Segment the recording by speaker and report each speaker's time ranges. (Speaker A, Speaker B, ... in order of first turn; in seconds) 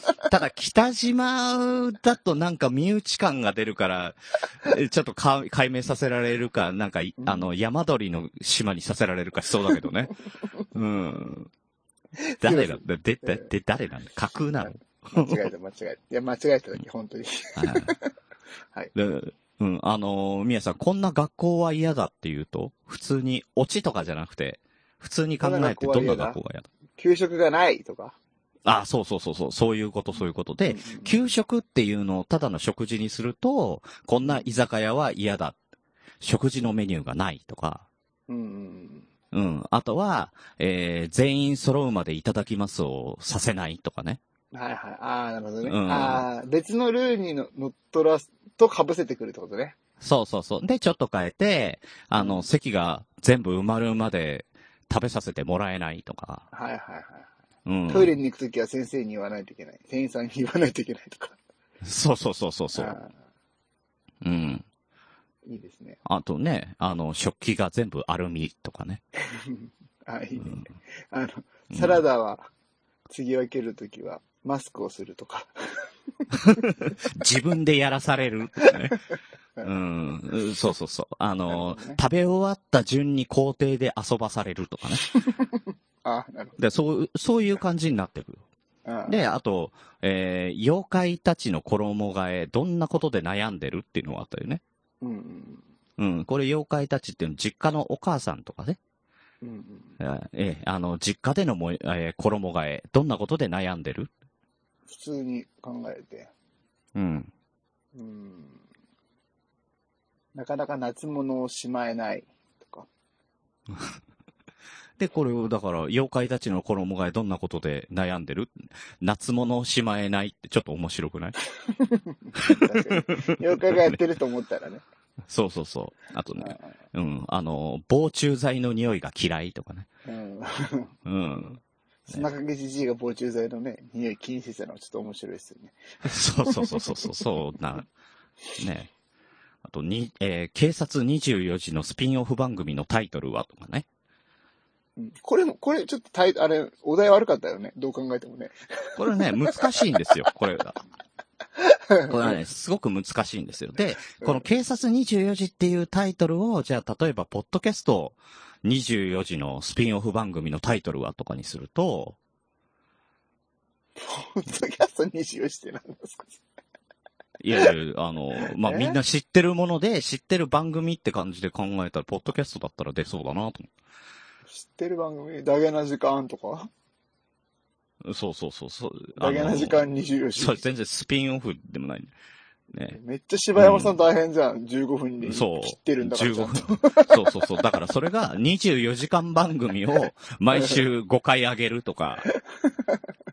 Speaker A: 0.3-10.1, 10.7-11.5, 12.4-15.4, 17.6-17.9, 18.9-26.7, 28.6-35.6, 36.2-37.8, 39.3-44.2, 45.6-46.2, 50.0-56.5, 57.6-58.1, 61.8-63.0, 64.2-64.7, 66.0-69.0, 71.7-72.0, 76.4-79.0, 79.6-85.0, 86.6-88.4, 89.1-94.6, 96.0-98.8, 100.0-104.1, 106.9-107.3, 115.0-121.3, 122.4-124.0, 125.3-129.9, 131.0-131.6, 136.1-137.9, 138.6-138.9, 139.6-143.8, 148.9-150.8, 152.1-162.2, 167.4-173.7, 178.0-179.8, 180.4-182.1, 182.7-183.0, 183.6-183.9, 185.2-192.3
Speaker B: 7.2-7.5, 12.2-13.5, 14.6-18.1, 25.4-26.4, 27.0-28.1, 30.6-31.2, 38.3-39.1, 44.5-49.8, 52.1-52.5, 56.5-57.3, 57.9-61.4, 62.7-63.1, 65.5-66.0, 69.3-72.5, 73.1-75.5, 81.5-82.0, 85.1-86.6, 88.8-89.2, 95.0-95.6, 99.4-100.0, 104.9-106.3, 107.9-108.6, 110.3-112.9, 121.6-124.8, 126.4-126.7, 130.0-131.5, 132.1-136.8, 145.0-149.2, 151.6-152.3, 164.0-166.4, 168.6-169.0, 174.5-176.7, 179.2-180.6, 182.9-187.2